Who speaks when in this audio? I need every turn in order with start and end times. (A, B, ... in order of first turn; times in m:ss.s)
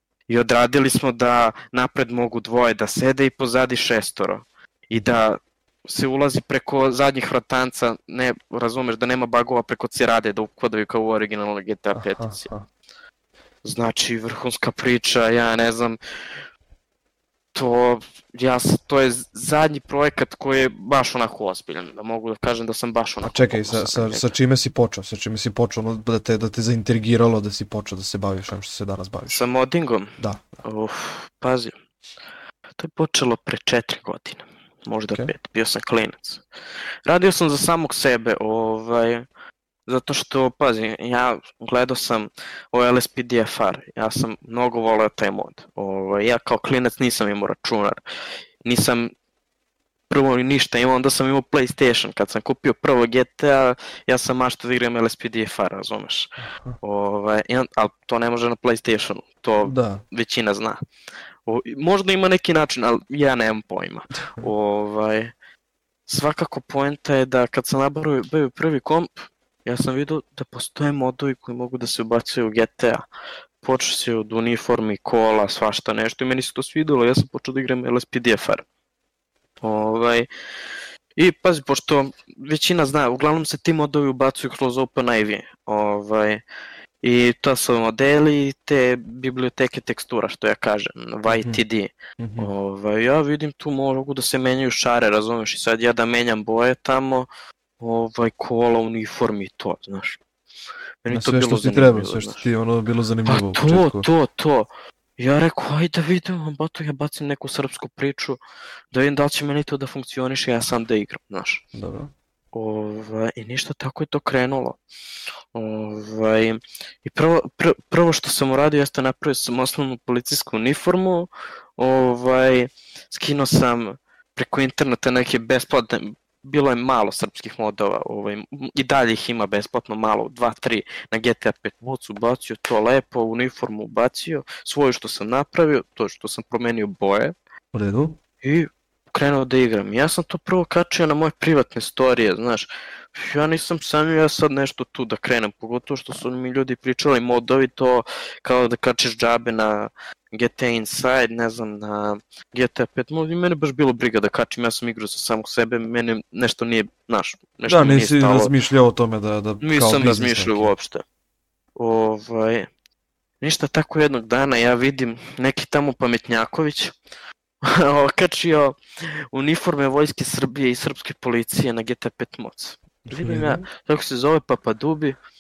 0:00.3-0:12.5 A
0:12.0-0:12.7 B
0:13.6-0:16.0 A
0:17.6-0:24.3 A
0:23.2-0:29.4 B
0:29.3-0:31.8 A
0:30.2-0:30.4 B
0:32.8-0:36.4 A
0:37.1-0:39.2 A
0:39.9-0:48.0 A
0:48.6-0:49.1 A
0:50.1-1:00.8 A
0:56.5-0:56.8 B
0:59.7-1:00.0 B
1:01.5-1:05.3 A
1:06.1-1:13.0 A
1:13.6-1:18.6 A
1:19.6-1:20.3 A
1:21.2-1:26.4 A
1:27.0-1:37.3 A
1:31.3-1:31.6 B
1:32.2-1:32.5 B
1:37.8-1:40.2 A
1:41.0-1:42.4 A
1:41.1-1:44.1 B
1:43.3-1:48.4 A
1:48.9-1:51.6 A
1:51.7-1:52.1 B
1:52.5-1:54.8 A
1:55.5-2:17.3 A
2:17.7-2:18.2 B
2:18.4-2:38.5 A
2:37.6-2:40.7 B
2:39.6-2:41.0 A
2:41.8-2:42.7 A
2:43.4-2:46.9 A
2:47.6-2:48.8 A
2:49.3-2:55.2 A
2:53.1-2:53.6 B